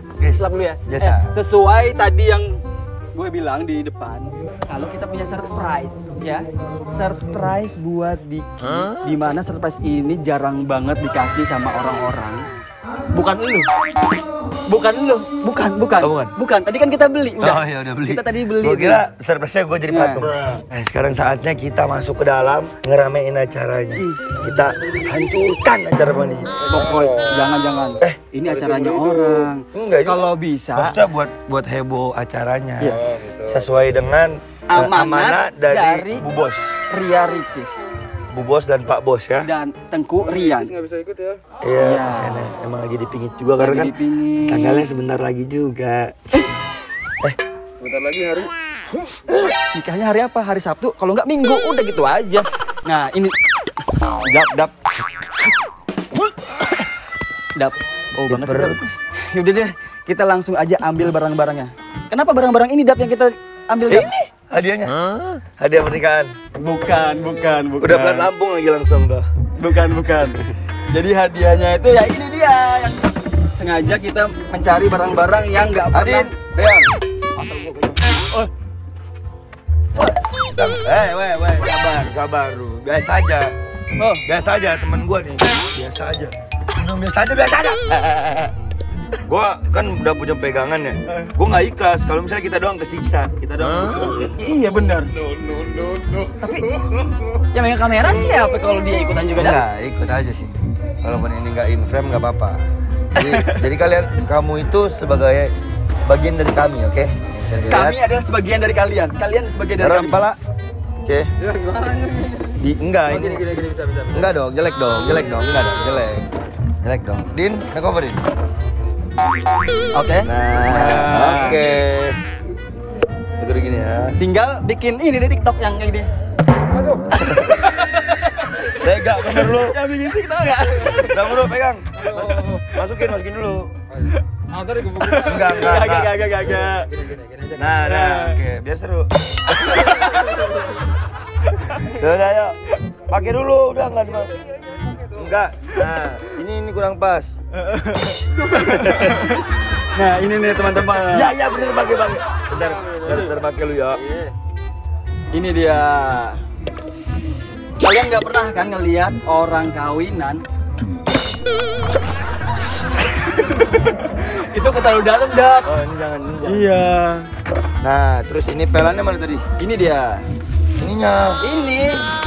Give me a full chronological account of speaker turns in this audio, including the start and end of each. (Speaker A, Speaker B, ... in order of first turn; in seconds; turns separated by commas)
Speaker A: 0.2-1.3, Speaker B: 0.4-2.6, Speaker B: 3.1-12.4, Speaker B: 13.1-13.7, Speaker B: 14.7-19.0, Speaker A: 16.0-16.4, Speaker A: 17.4-26.6, Speaker B: 19.9-20.3, Speaker B: 26.7-31.0, Speaker C: 28.4-29.4, Speaker A: 29.7-36.7, Speaker C: 33.2-33.6, Speaker B: 34.7-36.2, Speaker B: 36.9-37.9, Speaker A: 38.3-39.5, Speaker B: 39.4-40.7, Speaker C: 40.2-41.4, Speaker A: 41.6-46.5, Speaker B: 41.8-42.4, Speaker B: 43.6-44.9, Speaker C: 47.8-48.5, Speaker B: 49.7-53.4, Speaker B: 54.3-54.7, Speaker B: 57.6-64.3, Speaker A: 58.3-58.8, Speaker A: 63.9-66.3, Speaker B: 66.5-68.3, Speaker A: 67.8-69.3, Speaker B: 69.6-73.0, Speaker B: 73.6-76.3, Speaker A: 75.9-77.8, Speaker B: 77.4-78.5, Speaker A: 80.0-83.5, Speaker A: 84.3-88.5, Speaker A: 89.3-94.3, Speaker B: 94.4-95.1, Speaker B: 96.3-96.7, Speaker B: 97.5-99.6, Speaker A: 99.3-102.6, Speaker A: 103.2-105.5, Speaker B: 103.2-103.6, Speaker A: 106.1-108.0, Speaker B: 107.7-110.2, Speaker A: 109.8-110.4, Speaker C: 111.4-112.6, Speaker A: 112.6-113.5, Speaker C: 113.1-114.3, Speaker A: 114.1-116.3, Speaker A: 116.8-118.2, Speaker B: 119.9-121.7, Speaker A: 120.2-122.2, Speaker A: 123.4-124.2, Speaker B: 124.2-126.1, Speaker C: 126.7-127.1, Speaker A: 127.3-127.5, Speaker B: 127.4-128.7, Speaker A: 128.8-129.8, Speaker B: 129.2-131.4, Speaker A: 130.9-133.7, Speaker C: 132.0-132.6, Speaker C: 133.9-135.6, Speaker A: 135.2-136.1, Speaker B: 135.2-136.8, Speaker C: 136.4-137.8, Speaker A: 137.6-140.0, Speaker B: 137.9-138.2, Speaker A: 141.8-142.6, Speaker A: 143.1-144.3, Speaker A: 145.2-147.3, Speaker B: 147.6-149.3, Speaker A: 148.5-149.2, Speaker B: 149.9-151.3, Speaker A: 151.1-154.0, Speaker B: 153.1-153.3, Speaker B: 154.1-154.3, Speaker B: 155.3-156.4, Speaker B: 157.8-160.4, Speaker B: 163.2-165.7, Speaker A: 165.7-166.7, Speaker B: 166.4-167.3, Speaker A: 167.8-169.4, Speaker B: 169.6-170.2, Speaker A: 170.8-171.4, Speaker B: 171.4-172.0